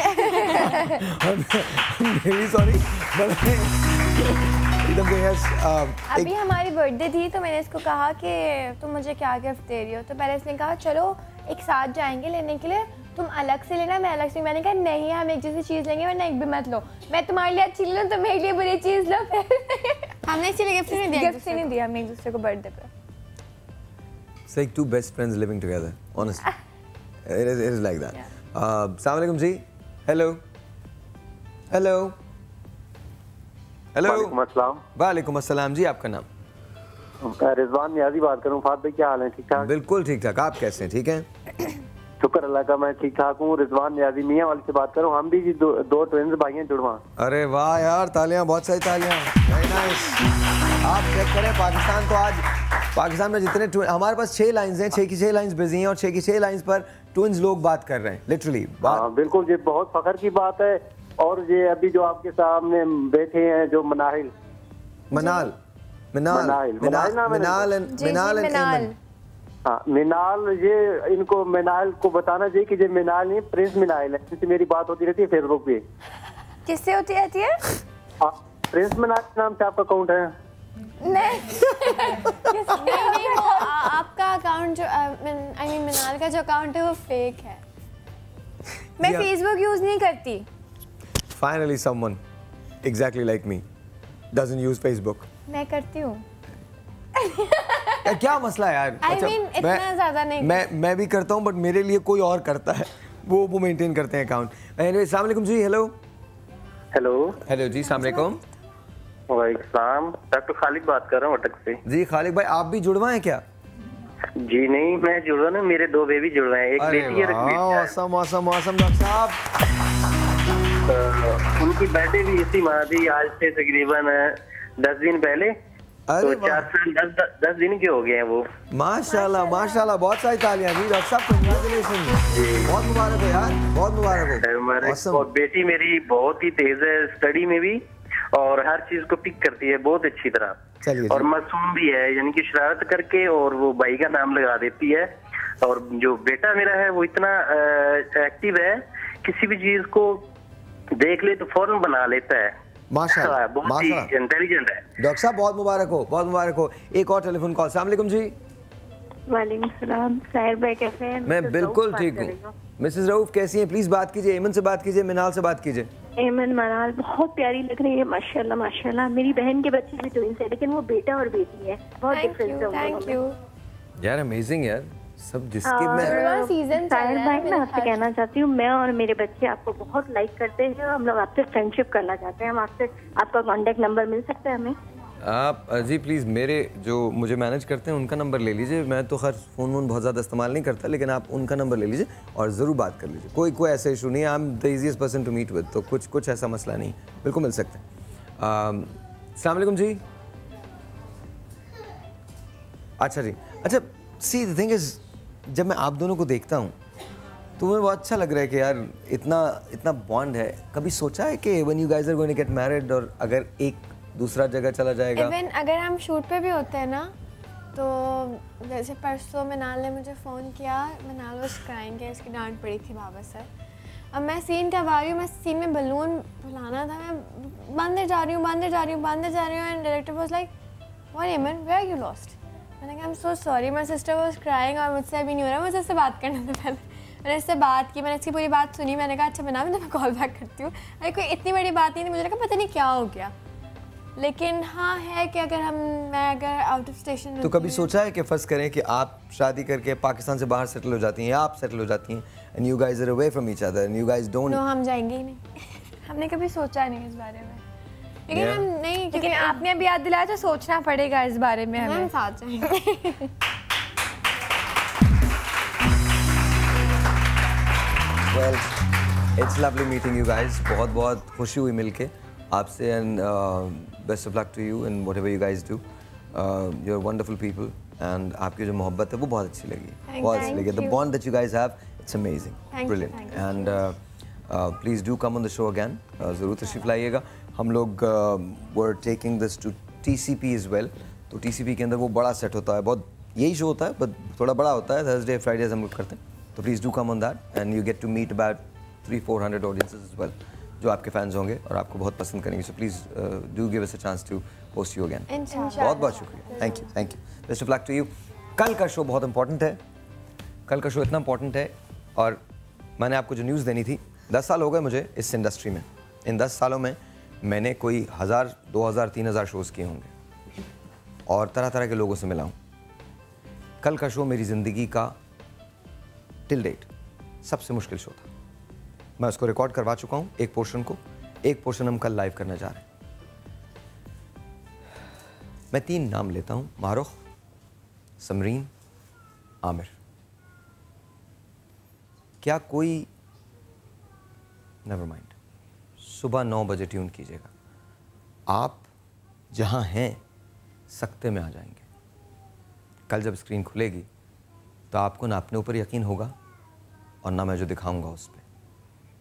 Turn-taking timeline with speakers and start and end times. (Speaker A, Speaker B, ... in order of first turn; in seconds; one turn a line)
Speaker A: 0.1-0.8
Speaker B: 0.2-1.0
Speaker C: 0.8-6.3
Speaker B: 6.1-20.1
Speaker A: 20.2-21.7
Speaker B: 20.9-22.9
Speaker C: 24.5-26.5
Speaker C: 27.2-30.4
Speaker C: 31.7-32.1
Speaker C: 33.9-34.4
Speaker D: 34.0-34.8
Speaker C: 34.9-36.3
Speaker D: 37.2-39.7
Speaker C: 39.5-41.2
Speaker D: 42.2-47.0
Speaker C: 47.2-50.2
Speaker C: 50.8-59.0
Speaker D: 58.8-64.3
Speaker C: 65.1-65.6
Speaker B: 65.1-65.5
Speaker C: 66.1-68.9
Speaker D: 66.3-67.7
Speaker B: 67.9-68.9
Speaker D: 69.6-75.8
Speaker B: 76.7-77.6
Speaker D: 78.2-80.3
Speaker B: 81.0-83.7
Speaker A: 82.7-87.6
Speaker C: 89.0-89.3
Speaker B: 89.0-90.5
Speaker C: 91.3-92.2
Speaker C: 92.8-93.6
Speaker C: 94.3-95.3
Speaker B: 95.5-96.2
Speaker B: 97.2-98.1
Speaker C: 98.0-99.9
Speaker A: 99.0-100.6
Speaker C: 100.4-105.9
Speaker D: 106.9-107.4
Speaker C: 107.4-108.4
Speaker D: 109.3-111.8
Speaker C: 111.8-113.4
Speaker D: 114.4-117.9
Speaker C: 116.8-119.4
Speaker D: 120.9-125.5
Speaker C: 126.1-126.7
Speaker D: 126.2-128.4
Speaker C: 128.7-135.3
Speaker B: 129.1-129.9
Speaker D: 132.3-132.7
Speaker D: 134.4-137.8
Speaker D: 138.3-145.1
Speaker C: 140.8-141.3
Speaker D: 145.6-150.2
Speaker D: 151.0-152.5
Speaker C: 152.9-154.1
Speaker D: 153.1-154.8
Speaker C: 155.0-158.3
Speaker E: 159.3-162.5
Speaker C: 161.2-165.9
Speaker E: 166.2-173.2
Speaker B: 172.1-173.3
Speaker C: 174.0-176.2
Speaker E: 175.6-184.8
Speaker B: 175.9-178.1
Speaker C: 185.2-197.8
Speaker C: 198.4-200.0
Speaker C: 203.0-206.7
Speaker C: 207.6-215.3
Speaker A: 215.2-217.1
Speaker A: 217.7-223.5
Speaker A: 224.1-230.5
Speaker A: 231.1-243.3
Speaker A: 244.2-247.9
Speaker C: 247.4-254.6
Speaker A: 254.5-255.4
Speaker B: 256.1-257.6
Speaker A: 258.3-259.6
Speaker C: 258.3-258.7
Speaker B: 259.1-262.1
Speaker A: 261.8-262.7
Speaker B: 262.7-263.3
Speaker C: 268.3-268.7
Speaker C: 269.4-309.8
Speaker A: 280.1-280.9
Speaker B: 280.2-280.9
Speaker A: 282.7-283.8
Speaker A: 305.3-306.9
Speaker B: 305.5-306.6
Speaker C: 310.7-312.4
Speaker C: 313.0-320.1
Speaker C: 321.3-322.6
Speaker C: 323.8-325.2
Speaker C: 326.5-326.9
Speaker C: 327.4-328.3
Speaker C: 329.2-332.8
Speaker C: 335.7-337.2
Speaker C: 338.2-338.7
Speaker C: 339.6-339.9
Speaker C: 342.4-343.1
Speaker C: 344.8-345.3
Speaker C: 346.0-347.5
Speaker C: 348.5-348.9
Speaker C: 349.5-350.2
Speaker C: 350.9-351.8
Speaker C: 353.1-354.1
Speaker C: 354.9-356.3
Speaker C: 357.2-358.4